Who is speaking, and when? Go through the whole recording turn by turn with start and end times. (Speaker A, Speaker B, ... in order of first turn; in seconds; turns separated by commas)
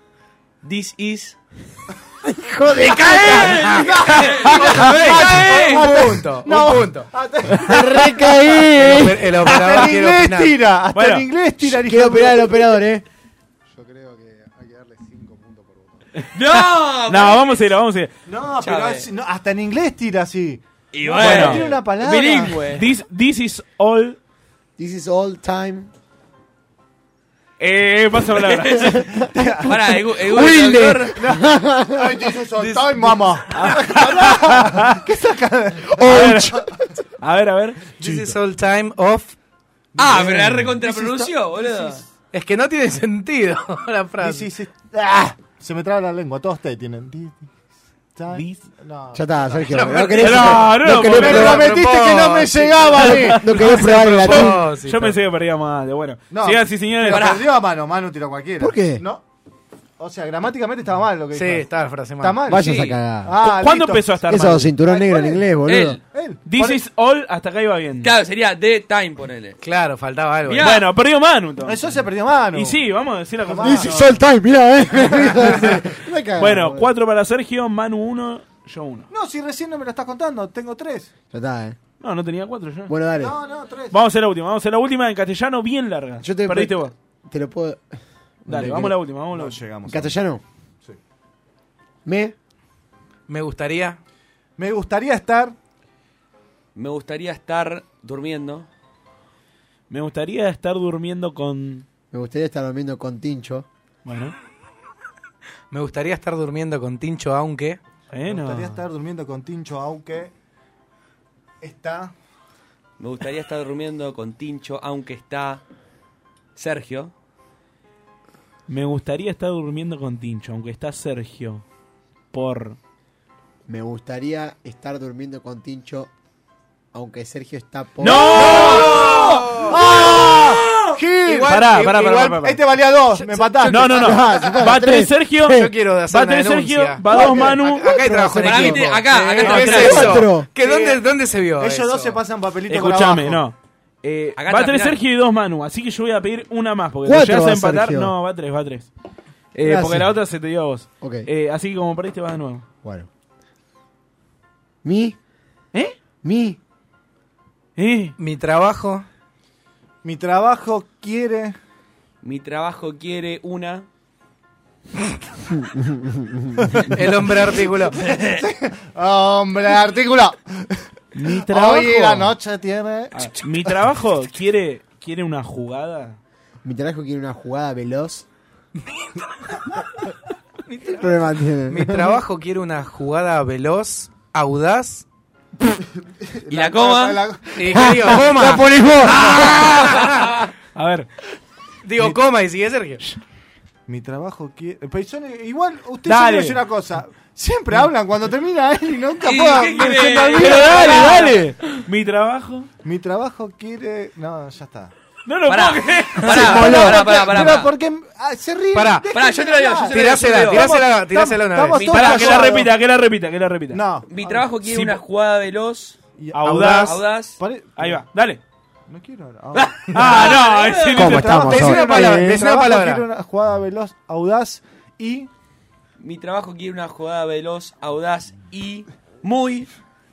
Speaker A: 0.6-1.4, Speaker B: 2.2-3.9, Speaker A: 2.7-5.8, Speaker C: 3.9-12.7, Speaker D: 4.3-7.1, Speaker B: 7.6-9.2, Speaker D: 8.8-10.6, Speaker E: 10.9-11.3, Speaker B: 11.6-13.0, Speaker F: 13.7-16.1, Speaker E: 16.2-18.1, Speaker A: 16.3-17.6, Speaker C: 18.2-22.7, Speaker A: 18.6-19.1, Speaker A: 20.9-22.8, Speaker E: 21.2-21.7, Speaker E: 22.7-24.2, Speaker B: 24.8-25.9, Speaker E: 27.6-29.0, Speaker A: 28.4-29.0, Speaker C: 29.0-29.9, Speaker A: 29.6-31.2, Speaker B: 29.9-32.2, Speaker C: 31.1-36.5, Speaker D: 32.5-33.4, Speaker E: 33.5-35.0, Speaker B: 36.0-36.7, Speaker E: 36.0-36.5, Speaker E: 37.2-37.9, Speaker D: 37.9-39.4, Speaker C: 38.0-38.4, Speaker A: 40.0-42.0, Speaker C: 40.0-42.0, Speaker D: 42.3-44.5, Speaker C: 44.2-47.5, Speaker C: 48.1-50.1, Speaker E: 48.3-48.6, Speaker B: 49.1-51.7, Speaker D: 49.7-55.2, Speaker E: 50.2-51.6, Speaker C: 51.1-53.5, Speaker B: 52.9-54.6, Speaker E: 54.2-57.4, Speaker C: 56.3-59.2, Speaker A: 57.0-57.5, Speaker B: 58.6-59.0, Speaker C: 60.0-61.7, Speaker D: 61.3-62.4, Speaker C: 62.2-65.5, Speaker B: 62.5-63.4, Speaker E: 63.5-64.7, Speaker B: 64.2-66.0, Speaker A: 65.6-66.0, Speaker C: 66.1-66.8, Speaker E: 66.4-68.1, Speaker A: 68.0-69.6, Speaker D: 69.6-70.8, Speaker A: 70.5-70.8, Speaker E: 70.6-74.0, Speaker C: 71.6-74.2, Speaker B: 73.6-76.8, Speaker C: 75.1-75.9, Speaker E: 76.4-79.1, Speaker C: 79.1-81.1, Speaker B: 81.3-81.8, Speaker E: 82.0-82.9, Speaker B: 82.9-83.4, Speaker C: 83.1-84.0, Speaker E: 83.9-86.9, Speaker B: 86.2-89.0, Speaker E: 88.5-89.6, Speaker C: 89.3-90.2, Speaker B: 89.8-90.4, Speaker B: 92.0-92.3, Speaker D: 93.3-94.0, Speaker C: 94.6-95.5, Speaker A: 96.7-98.7, Speaker E: 99.9-101.8, Speaker B: 102.1-103.7, Speaker E: 104.0-104.3, Speaker D: 105.7-107.8, Speaker E: 108.1-108.8, Speaker C: 108.2-110.3, Speaker C: 111.6-112.1, Speaker A: 113.0-115.6, Speaker A: 116.5-117.1, Speaker E: 118.7-121.6, Speaker E: 122.3-122.8, Speaker B: 123.7-126.1, Speaker B: 126.9-128.4, Speaker E: 128.0-129.2, Speaker A: 128.3-129.7, Speaker D: 128.3-129.8, Speaker C: 128.6-134.6, Speaker A: 130.5-130.9, Speaker D: 131.2-132.6, Speaker E: 131.4-132.5, Speaker D: 133.1-134.0, Speaker E: 133.7-137.9, Speaker B: 133.9-135.1, Speaker D: 135.4-142.2, Speaker B: 137.1-138.9, Speaker A: 138.4-140.2, Speaker E: 139.5-140.1, Speaker B: 139.5-140.5, Speaker C: 140.6-141.0, Speaker C: 141.6-143.5, Speaker E: 142.7-148.9, Speaker A: 144.4-145.0, Speaker B: 147.1-148.1, Speaker E: 149.5-152.6, Speaker B: 149.6-150.1, Speaker B: 151.0-151.3, Speaker B: 152.8-153.1, Speaker B: 154.8-155.2, Speaker B: 156.2-156.6, Speaker E: 157.8-158.1, Speaker D: 158.2-159.1, Speaker C: 160.0-161.5, Speaker A: 162.2-163.8, Speaker B: 165.6-166.6, Speaker D: 166.9-168.0, Speaker A: 168.0-168.4, Speaker C: 168.3-173.8, Speaker E: 171.1-172.3, Speaker E: 173.1-176.2, Speaker B: 176.6-178.2, Speaker D: 180.7-181.1, Speaker B: 181.0-182.1, Speaker D: 181.7-185.0, Speaker C: 186.2-188.1, Speaker A: 186.5-187.2, Speaker D: 187.5-188.6, Speaker B: 187.7-189.4, Speaker D: 189.2-190.3, Speaker E: 190.7-191.1, Speaker D: 191.8-193.0, Speaker C: 193.9-201.4, Speaker E: 196.1-196.6, Speaker A: 199.2-201.4, Speaker E: 200.3-202.7, Speaker C: 202.8-204.9, Speaker E: 205.2-206.4, Speaker A: 205.5-207.7, Speaker C: 206.3-212.7, Speaker B: 206.3-207.0, Speaker D: 208.7-209.1, Speaker A: 209.1-210.7, Speaker D: 209.9-212.0, Speaker A: 211.7-212.5, Speaker E: 211.9-213.8, Speaker C: 213.7-214.6, Speaker A: 214.1-216.0, Speaker E: 214.6-215.0, Speaker C: 216.2-218.1, Speaker E: 216.3-216.9, Speaker D: 216.5-216.8, Speaker A: 216.8-217.4, Speaker E: 217.8-218.4, Speaker C: 218.9-225.3, Speaker A: 219.5-221.2, Speaker E: 219.9-221.5, Speaker B: 220.9-222.2, Speaker D: 221.5-223.1, Speaker A: 226.0-229.7